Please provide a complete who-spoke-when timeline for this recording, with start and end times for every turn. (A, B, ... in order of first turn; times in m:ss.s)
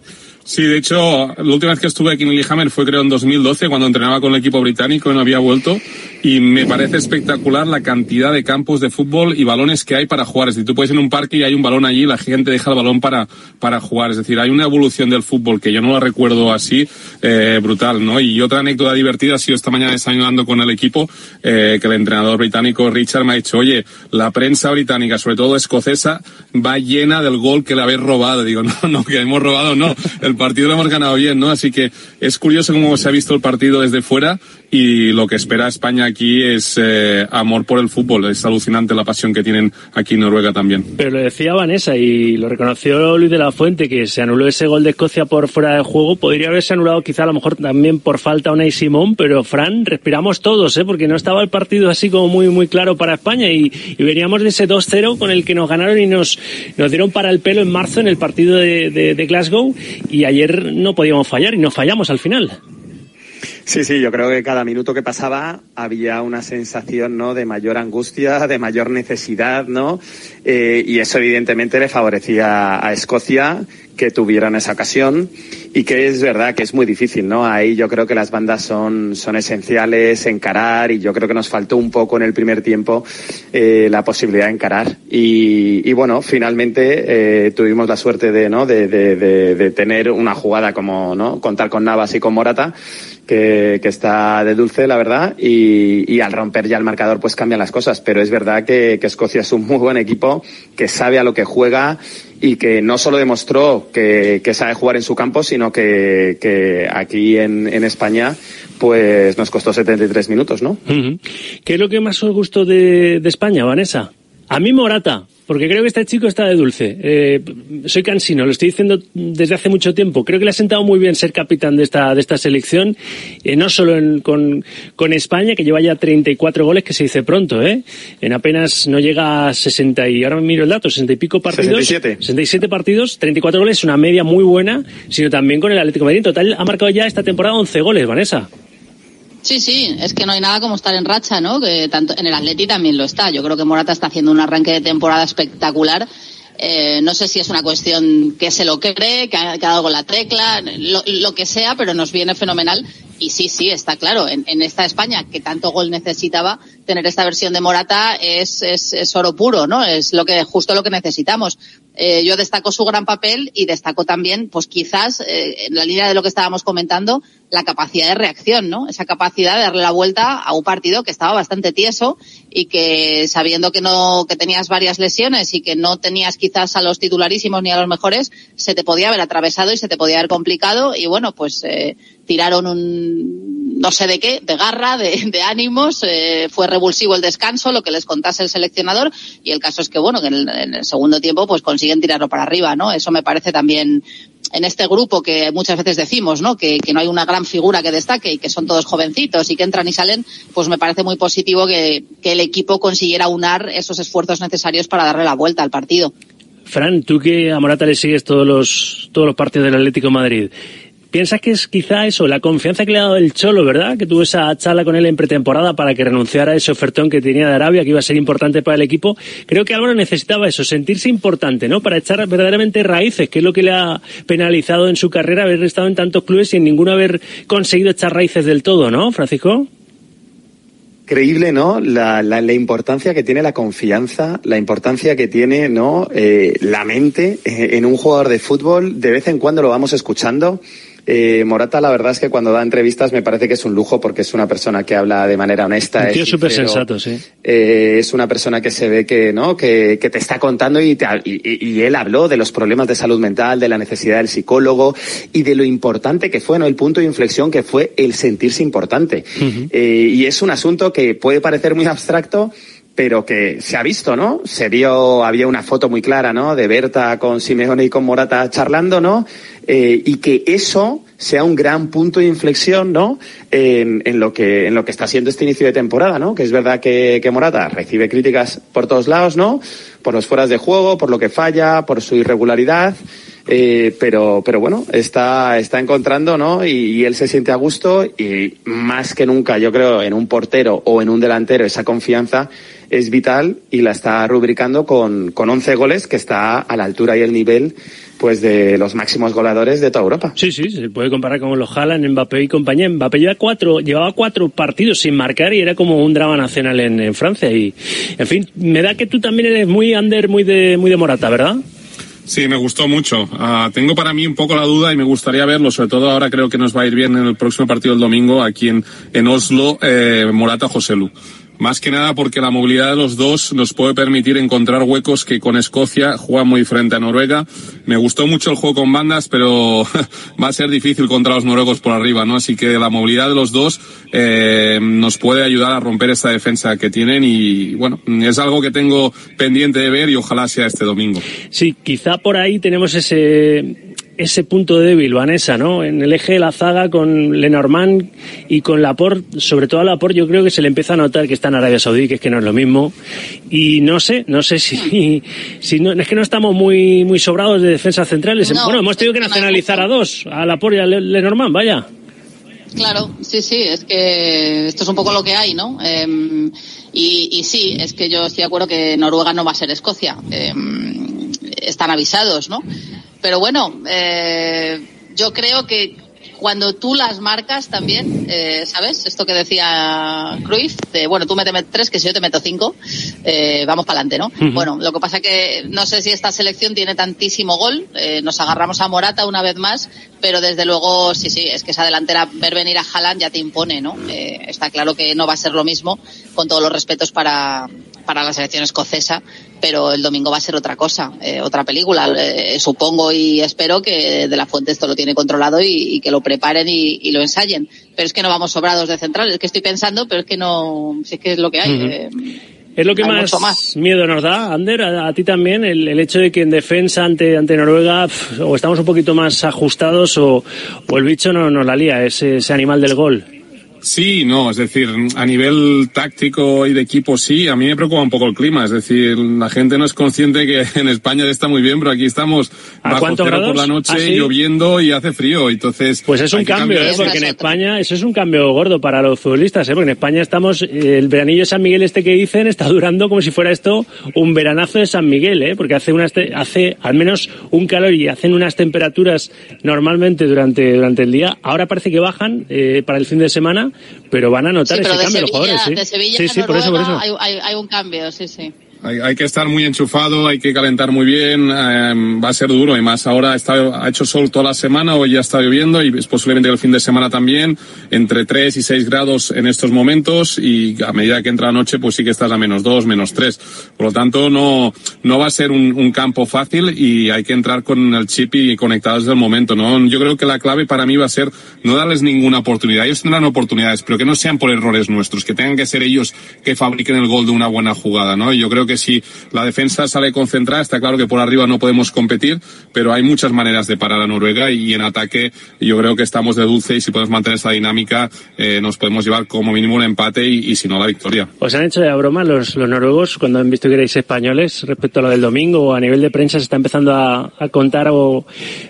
0:00.5-0:40.9 A
0:41.0-1:02.6 B
1:03.7-1:32.7 C
1:33.3-1:50.8 C
1:50.9-2:18.5 B
2:11.5-2:12.2 C
2:19.4-2:26.0 D
2:26.6-3:14.0 D
3:14.5-3:26.1 D
3:26.7-3:30.5 B
3:31.1-3:49.7 B
3:51.1-4:06.8 C
4:06.0-4:07.2 B
4:07.4-5:00.3 C
4:19.4-4:19.7 B
5:00.4-5:11.6 B
5:12.3-5:41.2 A
5:41.5-5:52.9 B
5:53.5-6:01.8 B
5:58.4-5:59.9 D
6:02.8-6:12.6 D
6:13.2-6:52.3 D
6:24.4-6:24.7 B
6:51.6-6:51.9 B
6:52.8-7:03.2 B
6:53.0-6:53.6 D
7:03.8-7:17.2 A
7:12.8-7:14.3 B
7:16.1-7:37.0 B
7:16.6-7:17.5 D
7:34.7-7:38.5 D
7:38.8-8:21.3 A
8:21.4-8:28.2 B